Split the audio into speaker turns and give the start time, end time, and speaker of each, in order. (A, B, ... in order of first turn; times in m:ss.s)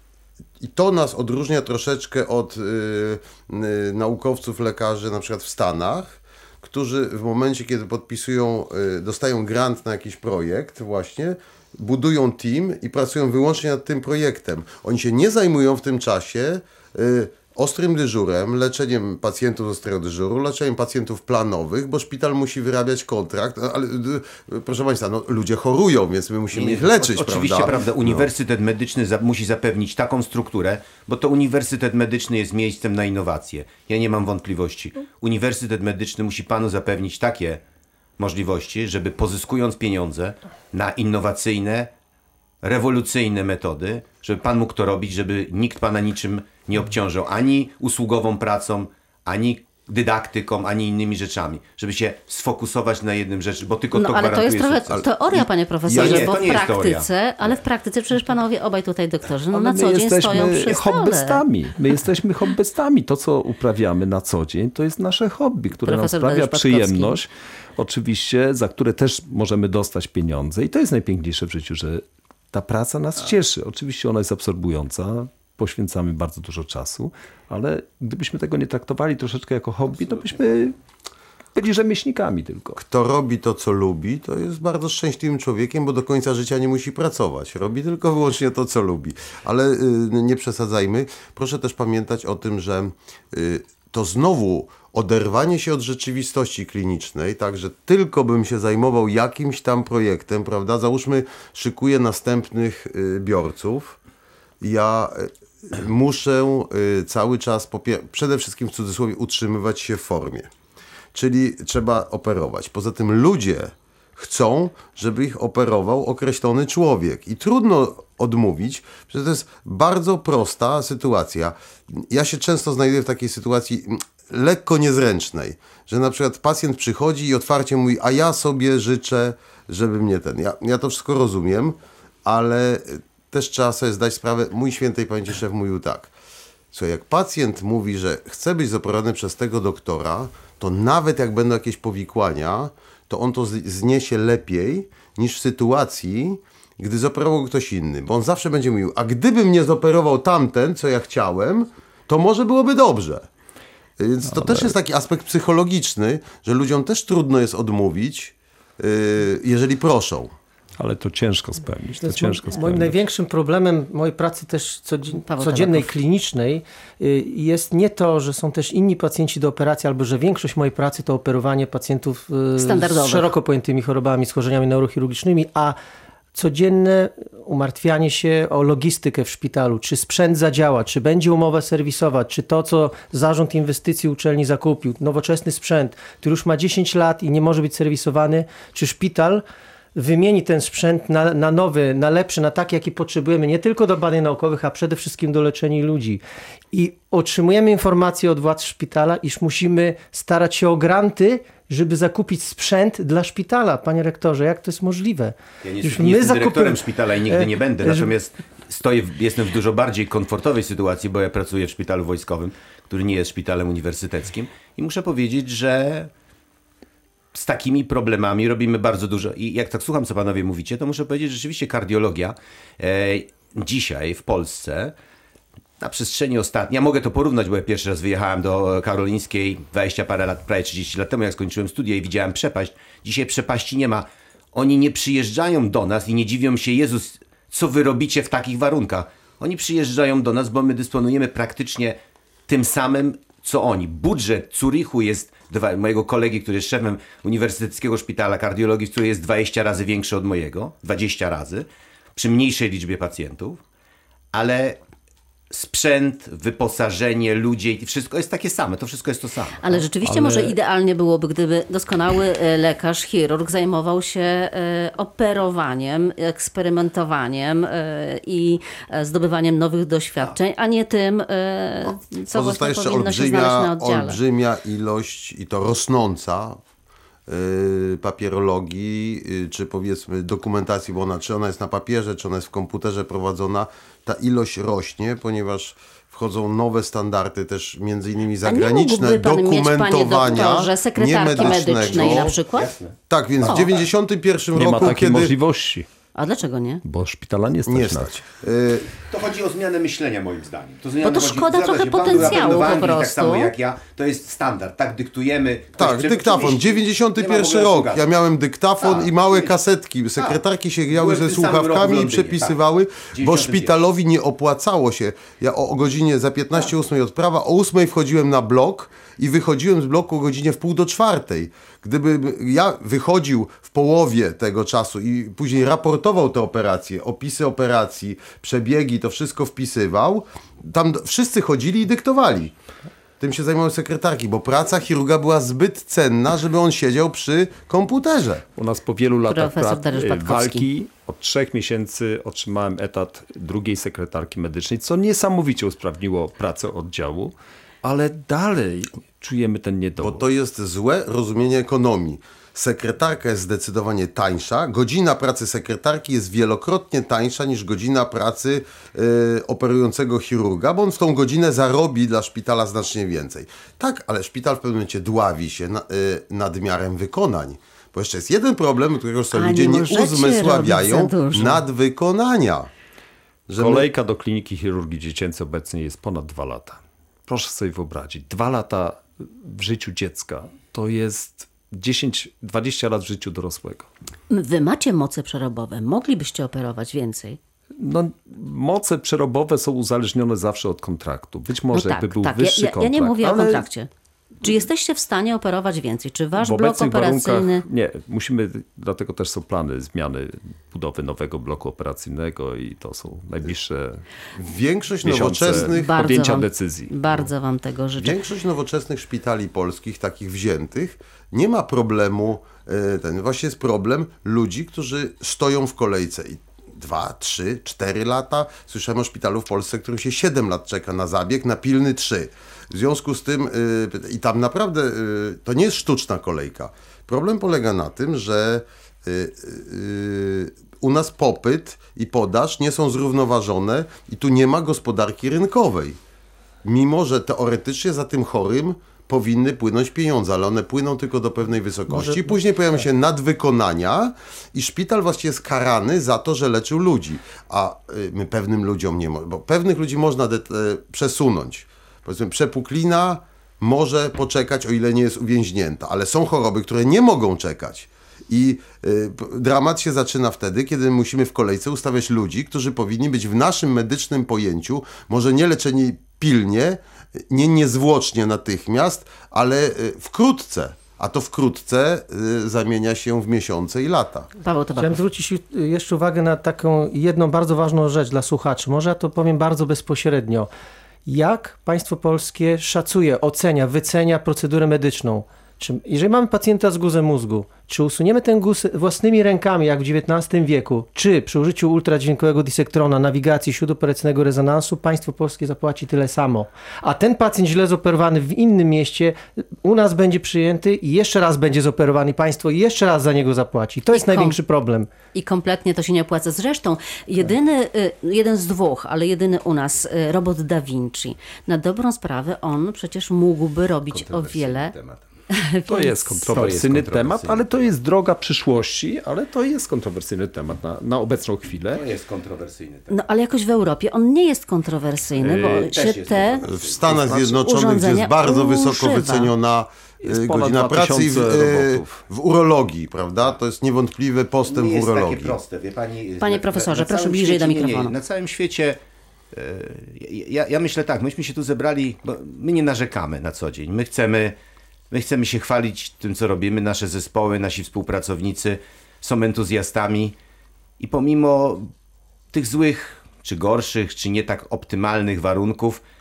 0:00.6-0:28.3 A
0:26.5-0:37.6 B
0:38.2-0:41.9 B
0:42.6-0:57.5 B
0:53.9-1:01.4 C
0:59.5-1:20.8 D
1:05.8-1:07.2 C
1:21.6-1:22.8 D
1:22.8-1:44.0 A
1:44.6-1:50.5 A
1:51.1-2:16.1 A
2:16.7-2:33.3 A
2:34.0-2:40.3 A
2:34.3-2:34.7 D
2:40.8-2:43.0 D
2:42.0-2:55.8 E
2:45.2-2:45.9 C
2:52.6-2:53.3 C
2:56.3-3:09.4 E
3:10.0-3:16.2 E
3:16.7-3:28.1 E
3:25.6-3:36.1 B
3:37.3-3:45.0 B
3:45.8-4:13.6 B
4:14.3-4:14.8 B
4:15.5-4:20.5 B
4:19.6-4:34.2 C
4:32.3-4:36.6 A
4:37.3-4:52.4 A
4:48.5-4:52.7 C
4:51.7-4:53.0 B
4:53.1-4:55.3 A
4:54.6-4:55.9 D
4:56.2-4:56.8 C
4:56.8-4:58.1 D
4:57.7-4:58.9 A
4:59.0-5:08.1 B
5:01.0-5:03.5 C
5:05.8-5:32.5 A
5:08.8-5:09.6 B
5:10.2-5:12.6 B
5:13.1-5:13.8 B
5:33.2-5:38.4 A
5:38.6-5:50.2 D
5:39.3-5:40.7 C
5:50.0-6:12.7 A
6:09.3-6:11.6 C
6:13.5-6:13.9 A
6:13.5-6:23.9 D
6:24.3-6:27.4 C
6:27.8-6:33.7 D
6:31.7-6:33.9 C
6:34.4-6:37.6 C
6:36.4-6:44.0 D
6:44.4-6:45.9 A
6:45.0-6:47.0 D
6:45.7-6:48.2 C
6:48.0-7:16.0 A
7:16.6-7:54.3 A
7:21.9-7:22.3 E
7:54.4-7:55.0 C
7:54.8-8:00.5 E
8:01.1-8:24.9 E
8:23.9-8:24.4 C
8:25.1-8:34.7 C
8:33.9-8:35.0 B
8:35.3-8:36.3 C
8:35.7-8:41.9 D
8:36.3-8:37.5 B
8:41.7-8:43.0 B
8:42.9-8:49.3 C
8:45.2-8:45.7 D
8:45.5-8:46.9 B
8:46.4-8:55.4 A
8:50.0-8:52.0 D
8:54.5-8:58.8 B
8:56.2-8:57.9 C
8:59.3-9:04.4 B
9:04.9-9:10.2 B
9:10.8-9:11.7 B
9:12.3-9:15.8 B